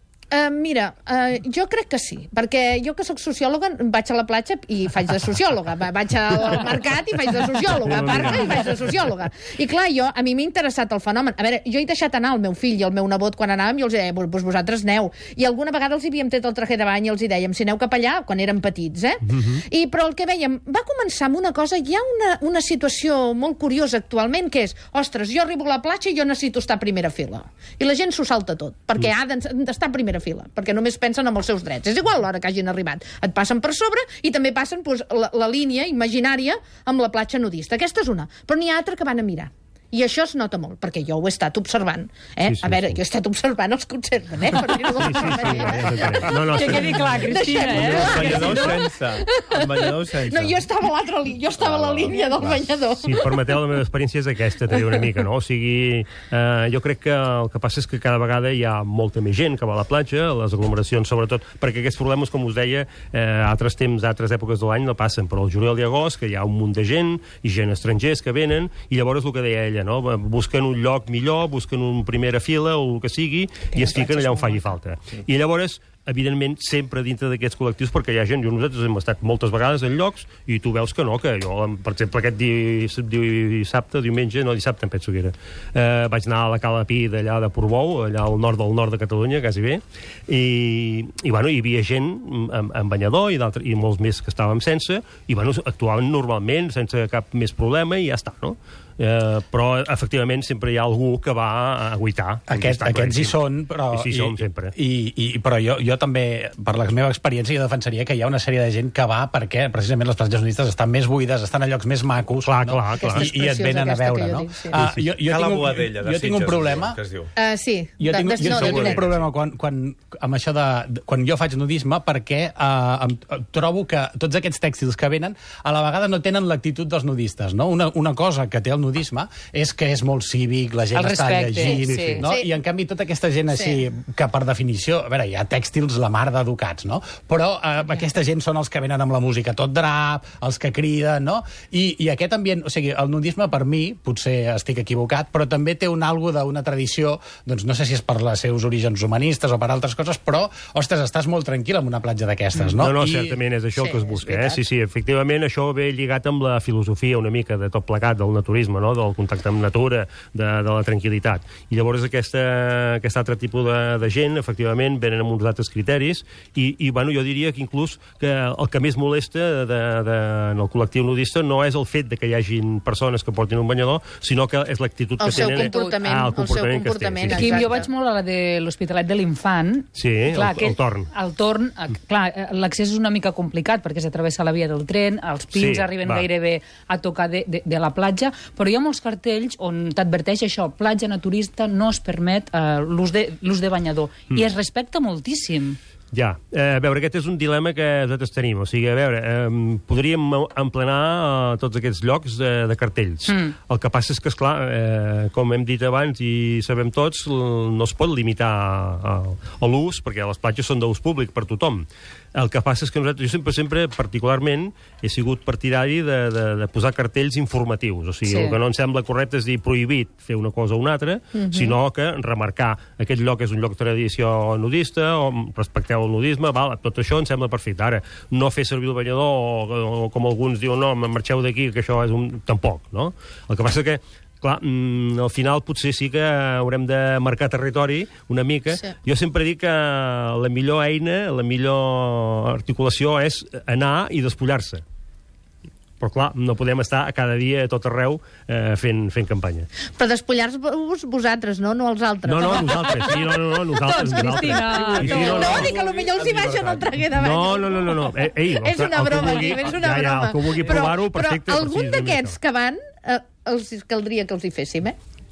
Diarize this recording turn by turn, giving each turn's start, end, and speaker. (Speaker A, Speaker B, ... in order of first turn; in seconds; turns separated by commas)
Speaker A: 0.3-53.5, Speaker B: 7.7-8.9, Speaker B: 19.3-19.6, Speaker B: 42.4-43.0, Speaker B: 44.9-48.1, Speaker C: 45.0-46.5, Speaker D: 46.5-48.7, Speaker E: 47.6-50.6, Speaker E: 51.6-52.6, Speaker B: 53.0-103.3, Speaker A: 73.8-74.8, Speaker C: 102.5-117.0, Speaker B: 103.9-104.7, Speaker B: 112.4-113.3, Speaker A: 113.0-114.8, Speaker B: 114.7-115.0, Speaker E: 115.2-117.3, Speaker A: 117.4-119.0, Speaker C: 118.0-153.4, Speaker B: 118.5-119.2, Speaker D: 130.9-132.2, Speaker A: 131.6-132.5, Speaker A: 133.5-133.8, Speaker B: 152.7-177.6, Speaker A: 153.8-154.6, Speaker A: 175.2-177.9, Speaker D: 177.3-195.8, Speaker B: 179.9-181.1, Speaker B: 185.5-186.3, Speaker B: 196.1-244.8, Speaker A: 221.3-221.8, Speaker B: 246.0-249.7, Speaker A: 249.9-253.2, Speaker B: 252.2-255.7, Speaker D: 253.9-255.2, Speaker A: 254.2-264.9, Speaker E: 254.7-256.8, Speaker B: 257.1-262.4